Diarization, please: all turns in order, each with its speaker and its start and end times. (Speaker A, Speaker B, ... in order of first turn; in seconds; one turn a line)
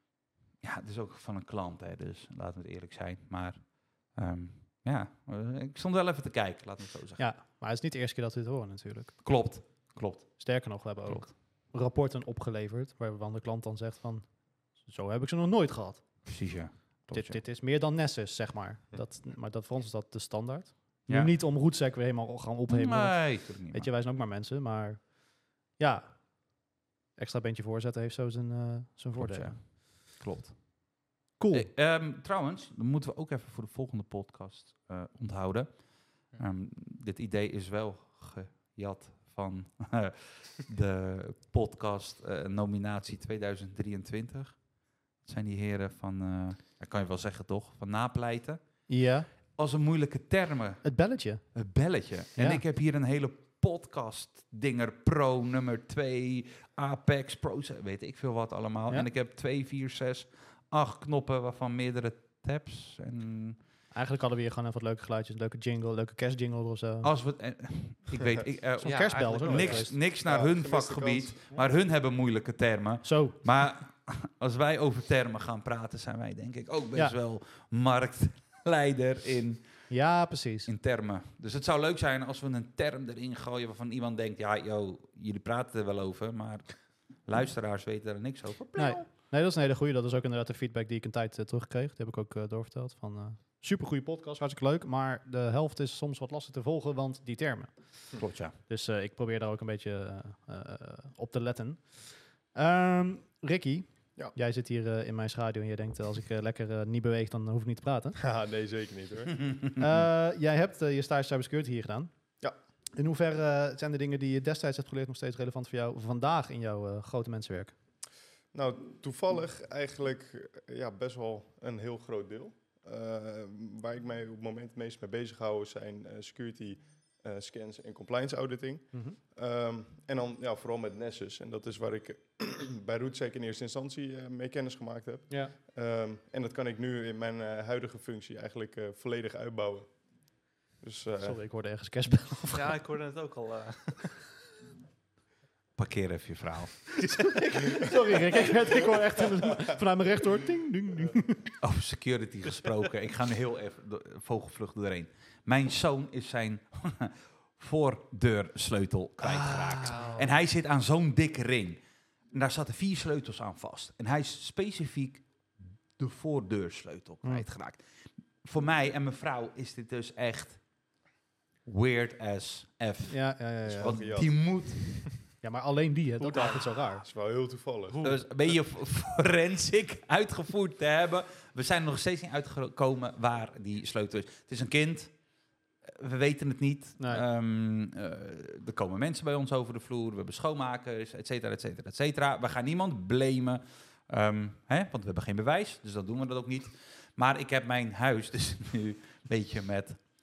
Speaker A: 0.6-7.2
Speaker B: 7.2-9.2
Speaker A: 9.2-10.5
Speaker B: 10.4-16.3
Speaker A: 16.3-17.4
Speaker B: 17.1-25.2
Speaker A: 22.7-23.9
Speaker B: 25.8-26.6
Speaker B: 27.2-29.6
Speaker A: 29.2-30.6
Speaker B: 31.4-31.7
Speaker A: 31.5-48.6
Speaker B: 48.9-49.3
Speaker A: 49.5-50.9
Speaker B: 50.8-51.4
Speaker A: 51.4-63.6
Speaker B: 52.4-52.6
Speaker B: 63.9-67.1
Speaker A: 67.0-79.7
Speaker C: 68.8-69.9
Speaker B: 68.8-70.0
Speaker D: 70.2-71.7
Speaker B: 73.0-73.4
Speaker B: 79.9-80.7
Speaker A: 80.7-89.0
Speaker B: 88.8-98.1
Speaker A: 98.2-98.6
Speaker B: 98.7-108.2
Speaker D: 108.2-109.4
Speaker B: 109.8-112.1
Speaker B: 113.0-117.8
Speaker D: 118.5-140.0
Speaker B: 128.9-129.2
Speaker D: 140.8-141.4
Speaker B: 141.2-142.8
Speaker C: 142.5-144.2
Speaker A: 145.8-147.2
Speaker C: 147.0-147.9
Speaker B: 147.4-151.5
Speaker A: 151.6-165.3
Speaker B: 159.2-160.3
Speaker C: 159.8-160.4
Speaker A: 166.0-167.9
Speaker A: 168.4-170.6
Speaker A: 171.7-175.1
Speaker B: 173.1-174.1
Speaker D: 173.7-174.7
Speaker B: 175.4-177.1
Speaker C: 176.2-176.6
Speaker D: 177.0-178.0
Speaker C: 177.9-178.2
Speaker A: 178.0-185.2
Speaker A: 185.8-200.0
Speaker B: 187.0-187.2